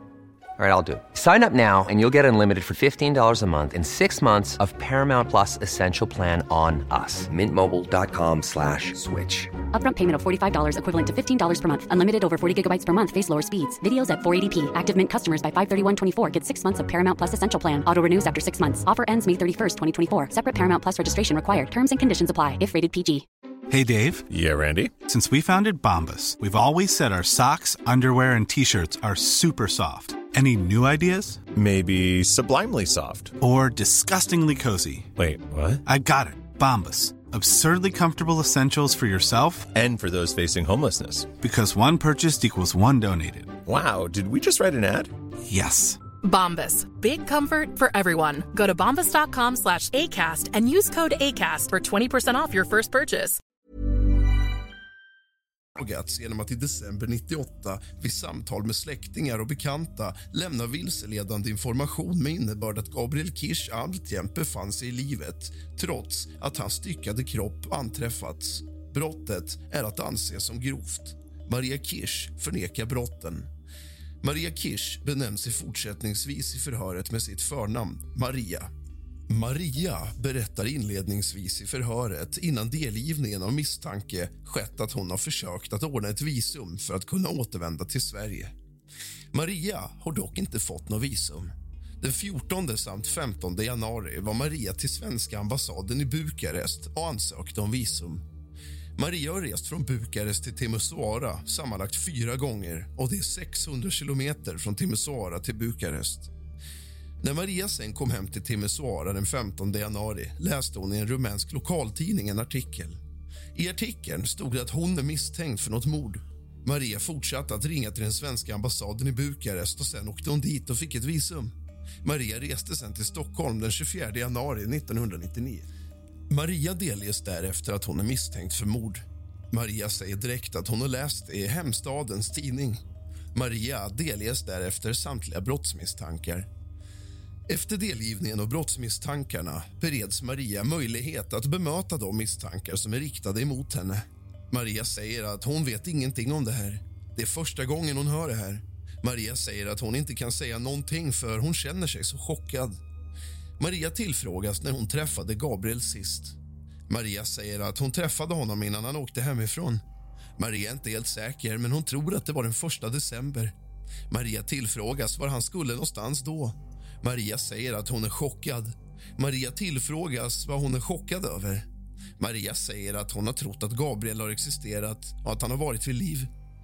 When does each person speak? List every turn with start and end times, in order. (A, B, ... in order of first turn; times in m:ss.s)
0:00.6-0:09.6 A
0:09.7-0:23.3 B
0:23.7-0:24.3 C
0:24.3-0:24.9 D
0:25.0-0:31.4 C
0:31.5-0:33.4 D
0:33.4-0:35.1 C
0:35.2-0:35.8 D
0:35.8-0:39.7 C
0:39.7-0:41.3 D
0:41.4-0:43.6 C
0:43.6-0:45.1 D
0:45.5-0:46.0 C
0:46.2-0:53.4 E
0:55.8-1:13.5 F
1:14.2-1:18.7 F
1:19.3-1:28.5 F
1:29.3-1:38.2 F
1:39.0-1:46.3 F
1:47.2-1:53.0 F
1:53.6-2:05.7 F
2:06.3-2:12.8 F
2:13.3-2:16.5 F
2:17.5-2:32.8 F
2:33.6-2:36.4 F
2:36.9-2:39.8 F
2:40.4-2:43.5 F
2:44.1-2:51.7 F
2:52.2-2:56.3 F